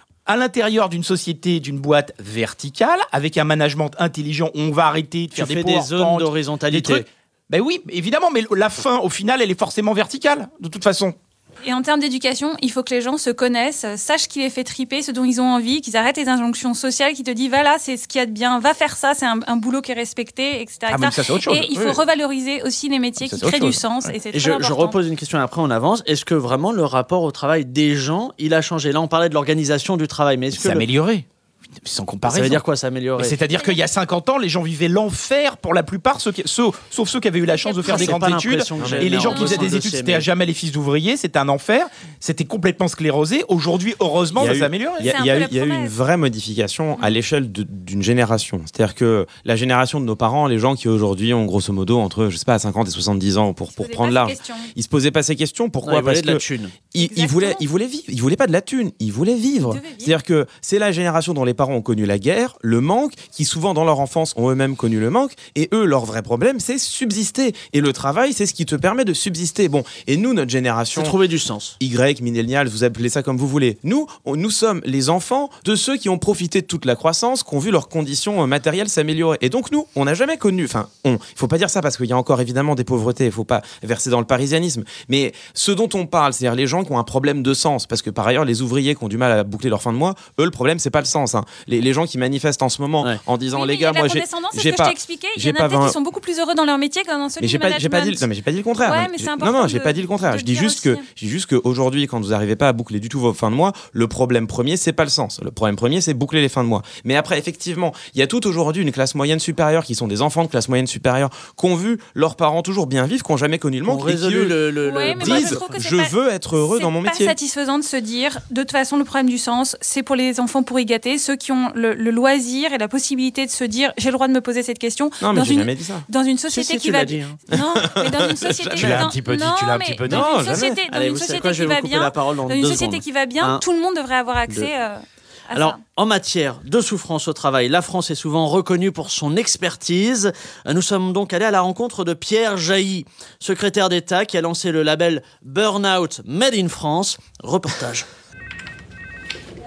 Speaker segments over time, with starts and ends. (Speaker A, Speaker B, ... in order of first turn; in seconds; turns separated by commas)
Speaker A: 0.2-11.2, Speaker B: 5.3-7.0, Speaker C: 11.6-25.0, Speaker A: 20.9-22.0, Speaker A: 23.2-24.1, Speaker B: 24.3-30.9, Speaker A: 30.5-31.2, Speaker A: 31.8-32.6, Speaker B: 32.2-33.4, Speaker A: 33.2-45.1, Speaker C: 33.5-33.8, Speaker C: 37.5-38.2, Speaker B: 37.9-40.3, Speaker D: 38.8-39.1, Speaker C: 39.2-39.7, Speaker D: 44.3-71.2, Speaker C: 45.0-45.9, Speaker C: 53.8-54.7, Speaker B: 55.8-56.7, Speaker C: 57.0-57.6, Speaker C: 59.6-60.2, Speaker B: 70.9-71.7, Speaker D: 71.8-96.0, Speaker C: 93.5-98.2, Speaker D: 97.4-114.6, Speaker C: 98.8-101.0, Speaker B: 113.8-115.6, Speaker C: 114.8-135.8, Speaker D: 115.1-117.3, Speaker D: 125.2-126.0, Speaker B: 126.5-127.4, Speaker D: 127.5-129.2, Speaker A: 128.8-130.6, Speaker D: 130.0-130.8, Speaker B: 130.9-133.6, Speaker B: 135.5-148.1